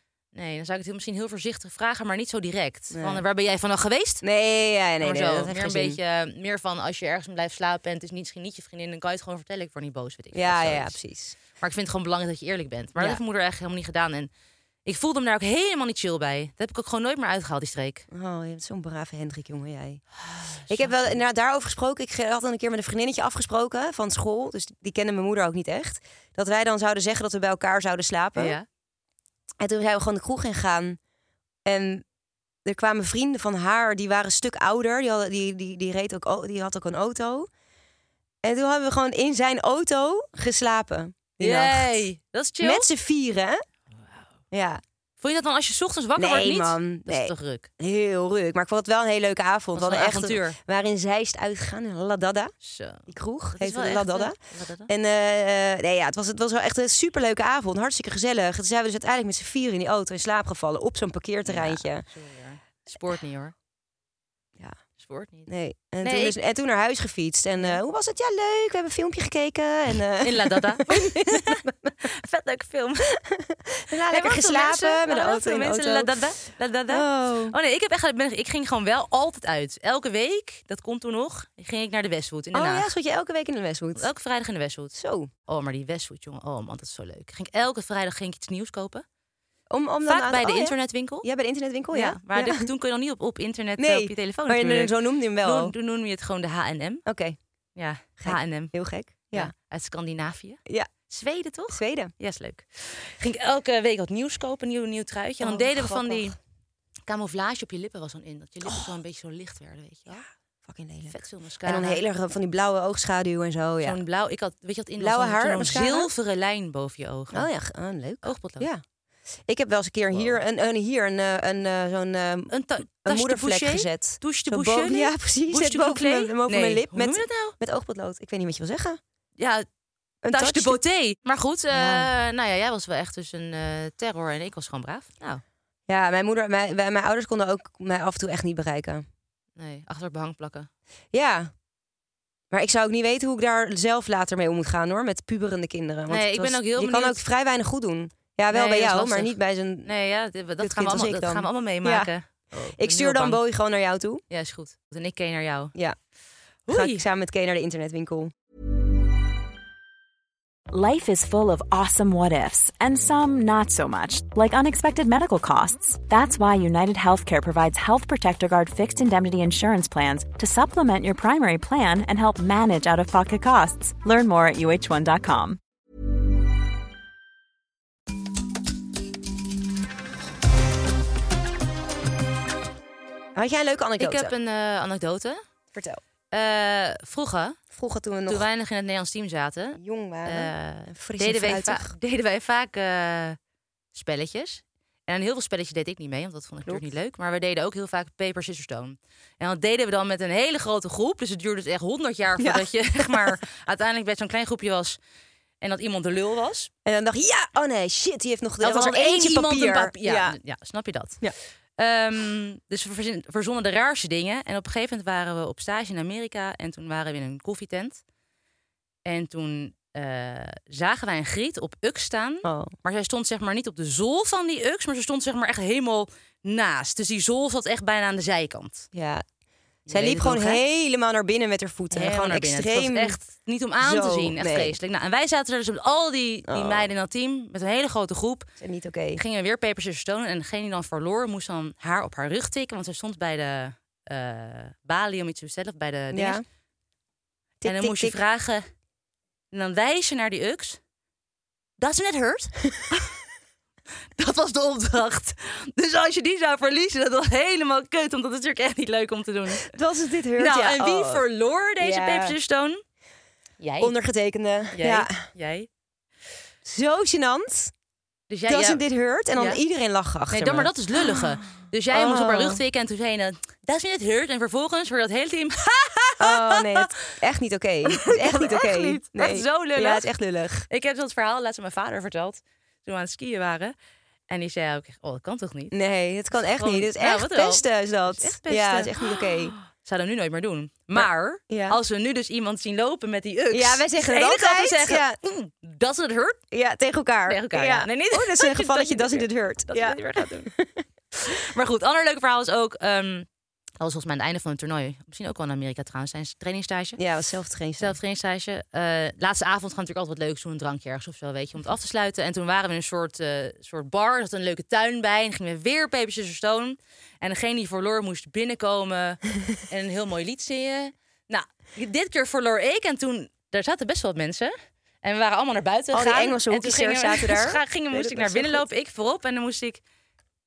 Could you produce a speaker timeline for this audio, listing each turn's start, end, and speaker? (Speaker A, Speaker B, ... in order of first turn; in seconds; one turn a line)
Speaker A: 0.3-4.2
Speaker B: 2.9-3.2
Speaker B: 4.2-6.0
Speaker A: 5.0-10.9
Speaker B: 10.3-11.4
Speaker A: 11.6-14.3
Speaker A: 14.8-18.0
Speaker B: 18.1-20.0
Speaker A: 20.3-21.2
Speaker B: 20.7-28.6
Speaker A: 28.4-28.6
Speaker B: 29.6-31.0
Speaker B: 31.6-32.0
Speaker B: 32.6-37.5
Speaker B: 38.4-42.0
Speaker A: 41.4-42.9
Speaker B: 42.6-43.6
Speaker A: 44.0-44.2
Speaker B: 44.5-44.8
Speaker A: 45.2-47.7
Speaker B: 46.1-52.5
Speaker A: 49.7-50.6
Speaker A: 52.6-54.9
Speaker B: 53.1-54.4
Speaker B: 54.9-62.0
Speaker A: 61.5-63.5
Speaker A: 65.0-65.5
Speaker B: 65.5-71.9
Speaker A: 66.0-66.4
Speaker A: 70.2-73.2
Speaker B: 73.3-76.1
Speaker A: 74.1-82.9
Speaker B: 76.9-77.5
Speaker B: 82.5-84.1
Speaker A: 84.0-84.9
Speaker B: 84.9-85.3
Speaker A: 85.5-89.0
Speaker B: 89.7-92.7
Speaker A: 90.0-91.3
Speaker A: 91.9-97.0
Speaker B: 93.8-95.7
Speaker B: 97.0-97.4
Speaker A: 97.8-98.7
Speaker B: 98.2-99.5
Speaker A: 99.3-106.4
Speaker B: 101.7-102.1
Speaker B: 105.4-106.3
Speaker A: 107.1-110.2
Speaker B: 108.7-109.0
Speaker B: 110.1-114.0
Speaker A: 111.1-112.0
Speaker A: 113.8-117.5
Speaker B: 115.0-116.1
Speaker B: 117.3-118.8
Speaker A: 118.2-118.7
Speaker B: 119.5-129.0
Speaker A: 122.5-127.5
Speaker A: 129.4-129.7
Speaker B: 130.2-130.8
Speaker A: 130.3-135.4
Speaker B: 131.7-132.1
Speaker B: 135.9-139.0
Speaker A: 139.6-140.7
Speaker B: 141.1-141.5
Speaker B: 142.5-149.9
Speaker A: 146.1-147.2
Speaker A: 148.5-153.4
Speaker B: 150.6-152.1
Speaker B: 152.8-154.2
Speaker A: 154.3-155.7
Speaker A: 156.7-157.0
Speaker B: 156.7-158.3
Speaker C: 160.7-175.6
Speaker B: 183.3-184.3
Speaker A: 184.0-185.4
Speaker B: 185.7-186.0
Speaker A: 186.3-187.6
Speaker B: 187.7-188.4
Speaker A: 188.3-193.4
Speaker B: 189.8-191.9
Speaker A: 193.9-205.0
Speaker B: 202.4-203.4
Speaker A: 205.6-206.7
Speaker B: 206.8-210.4
Speaker A: 208.6-211.2
Speaker A: 211.8-218.0
Speaker A: 219.0-228.9
Speaker B: 222.4-222.7
Speaker B: 228.9-229.2
Speaker A: 229.9-230.6
Speaker B: 229.9-233.2
Speaker A: 231.9-238.5
Speaker B: 233.8-234.8
Speaker B: 236.5-236.9
Speaker B: 238.6-239.2
Speaker A: 239.2-246.4
Speaker B: 246.1-246.4
Speaker B: 247.6-248.2
Speaker A: 247.6-248.6
Speaker A: 249.5-250.8
Speaker A: 251.8-253.1
Speaker A: 254.2-259.7
Speaker B: 259.6-261.2
Speaker A: 260.4-262.8
Speaker B: 261.8-262.4
Speaker A: 263.6-263.9
Speaker B: 263.8-265.1
Speaker A: 264.7-265.7
Speaker B: 266.6-267.7
Speaker A: 268.3-268.8
Speaker B: 268.5-271.3
Speaker A: 269.3-269.6
Speaker A: 270.3-276.9
Speaker B: 271.9-272.6
Speaker B: 276.2-280.7
Speaker A: 277.9-280.1
Speaker A: 280.7-283.7
Speaker A: 284.3-285.7
Speaker B: 285.7-289.5
Speaker A: 286.5-296.4
Speaker B: 290.9-291.8
Speaker B: 293.5-295.1
Speaker B: 296.5-300.8
Speaker A: 297.3-300.5
Speaker A: 301.1-303.2
Speaker A: 303.8-307.0
Speaker B: 307.0-307.9
Speaker A: 307.8-329.8
Speaker B: 325.9-328.6